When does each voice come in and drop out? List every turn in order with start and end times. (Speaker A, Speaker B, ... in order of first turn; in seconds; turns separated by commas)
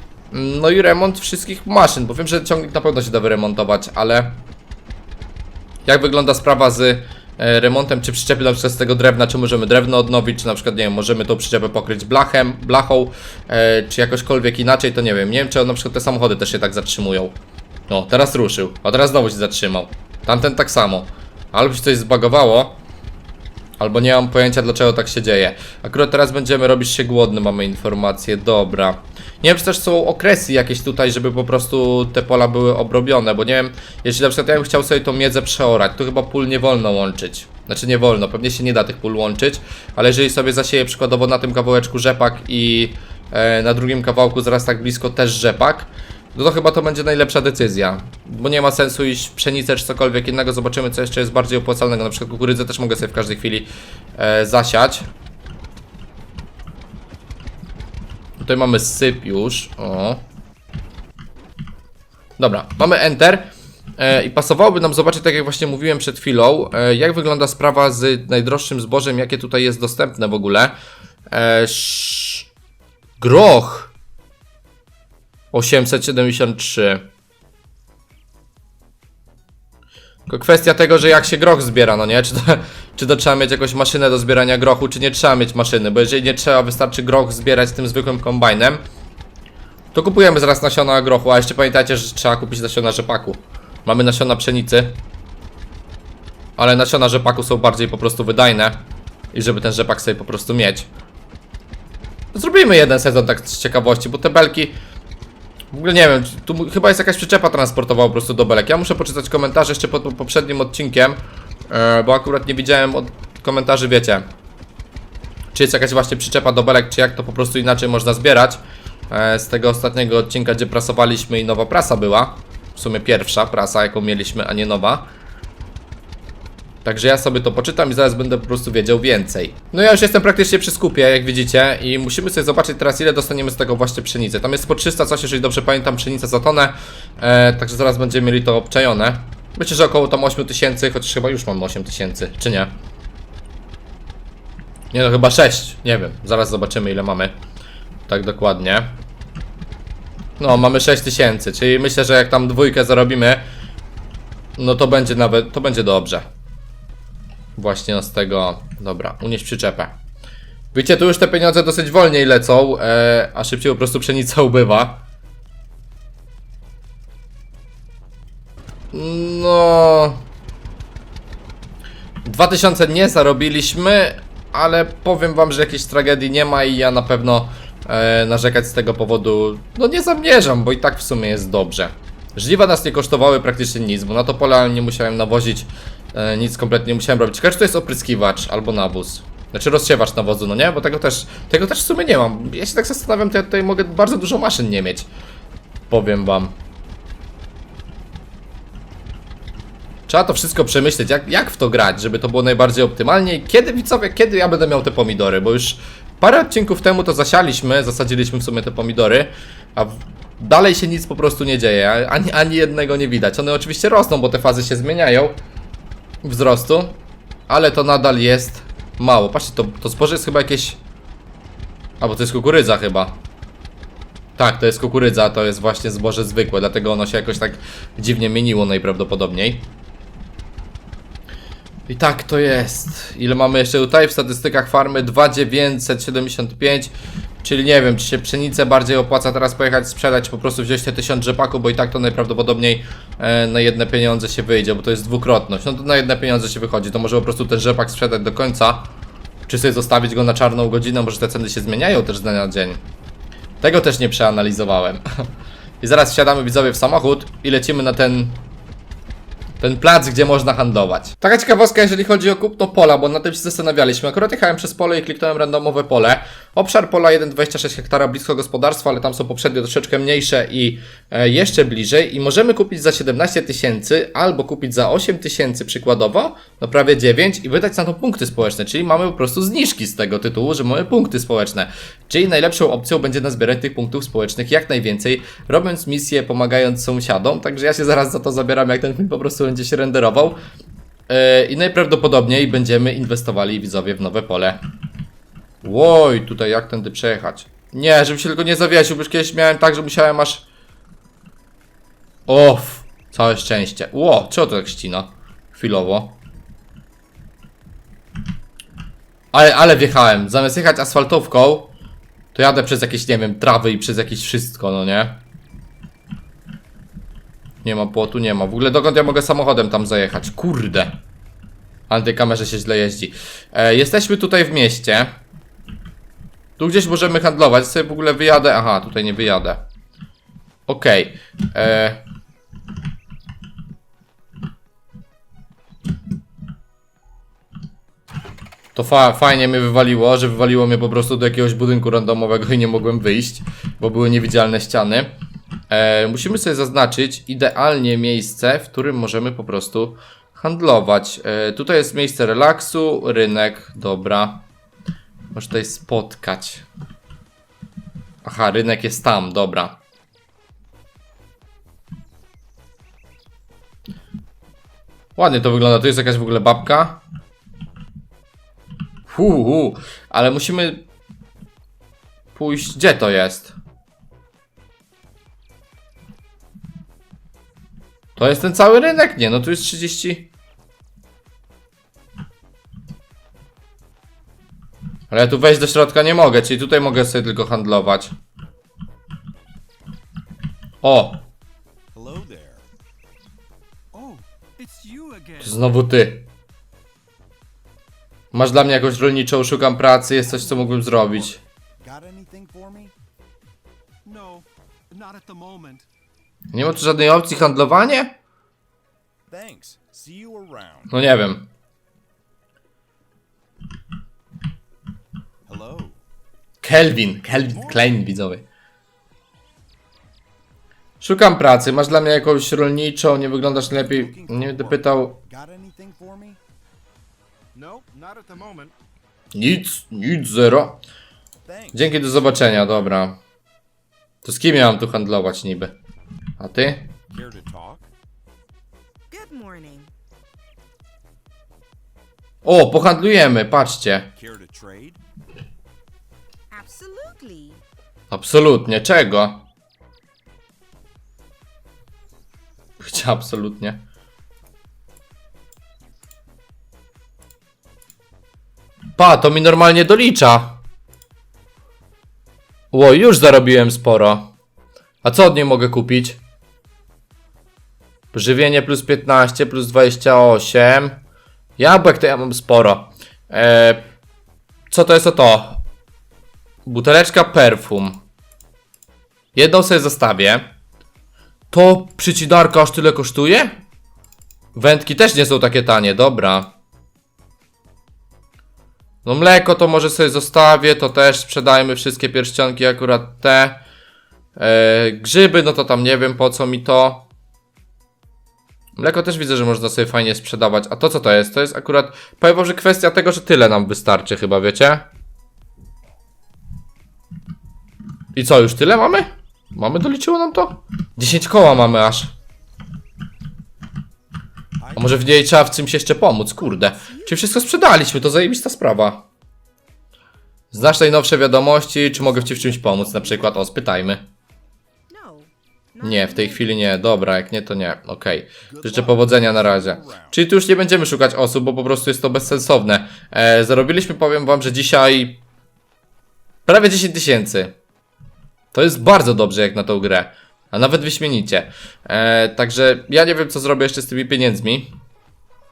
Speaker A: 0.3-4.4, Speaker A: 5.9-17.4, Speaker A: 17.9-22.8, Speaker A: 23.8-55.0, Speaker A: 58.4-60.2, Speaker A: 62.4-70.7, Speaker A: 71.3-72.5, Speaker A: 73.2-73.9, Speaker A: 75.5-77.0, Speaker A: 80.3-88.8, Speaker A: 89.9-95.0, Speaker A: 96.6-100.9, Speaker A: 102.3-104.8, Speaker A: 105.7-114.3, Speaker A: 115.5-125.1, Speaker A: 126.8-142.7, Speaker A: 144.9-147.3, Speaker A: 148.1-149.0, Speaker A: 150.4-153.4, Speaker A: 154.6-156.2, Speaker A: 157.6-159.9, Speaker A: 160.7-165.0, Speaker A: 168.9-170.2, Speaker A: 172.2-195.1, Speaker A: 195.9-196.5, Speaker A: 200.1-215.4, Speaker A: 216.2-220.8, Speaker A: 222.0-223.2, Speaker A: 224.4-229.7, Speaker A: 231.9-248.9, Speaker A: 249.5-252.8, Speaker A: 253.6-255.0, Speaker A: 255.8-258.4, Speaker A: 259.6-290.4, Speaker A: 291.1-294.6, Speaker A: 295.6-300.4, Speaker A: 302.3-306.2, Speaker A: 309.3-311.7, Speaker A: 312.3-315.2, Speaker A: 317.6-320.9, Speaker A: 321.9-325.1, Speaker A: 326.6-329.6, Speaker A: 330.7-332.0, Speaker A: 338.8-345.1, Speaker A: 345.7-354.4, Speaker A: 355.3-356.6, Speaker A: 358.2-359.8, Speaker A: 365.2-367.0, Speaker A: 369.1-370.9, Speaker A: 372.3-373.5, Speaker A: 378.2-380.3, Speaker A: 385.1-388.1, Speaker A: 390.8-391.2, Speaker B: 391.9-392.7, Speaker C: 393.9-395.5, Speaker A: 395.4-396.3, Speaker A: 398.3-401.4, Speaker B: 400.2-402.9, Speaker C: 404.1-405.8, Speaker A: 406.5-408.1, Speaker B: 409.3-410.9, Speaker A: 410.9-411.5, Speaker B: 415.5-416.0, Speaker A: 416.6-418.4, Speaker B: 417.4-418.1, Speaker A: 421.0-425.2, Speaker B: 423.9-426.4, Speaker C: 427.6-428.7, Speaker A: 429.3-430.8, Speaker B: 431.5-432.8, Speaker A: 431.7-433.2, Speaker A: 434.2-435.7, Speaker A: 436.4-436.9, Speaker B: 437.1-437.9, Speaker D: 439.1-439.9, Speaker A: 442.4-444.1, Speaker B: 444.2-445.0, Speaker D: 446.5-447.6, Speaker A: 448.1-449.5, Speaker A: 452.8-453.8, Speaker A: 459.0-460.6, Speaker A: 462.7-464.3, Speaker A: 465.0-466.2, Speaker A: 468.1-471.0, Speaker A: 471.6-473.9, Speaker A: 474.7-475.6, Speaker A: 476.7-478.0, Speaker A: 479.3-480.4, Speaker A: 481.5-483.5, Speaker A: 484.5-486.5, Speaker A: 489.0-493.6, Speaker A: 494.4-497.1, Speaker A: 498.8-504.9, Speaker A: 508.1-512.1, Speaker B: 514.6-515.2, Speaker A: 514.8-519.0, Speaker D: 516.5-517.2, Speaker A: 520.5-524.0, Speaker B: 522.0-523.3, Speaker D: 524.9-526.5, Speaker A: 525.8-535.2, Speaker B: 528.5-530.2, Speaker A: 536.5-537.5, Speaker A: 538.5-544.7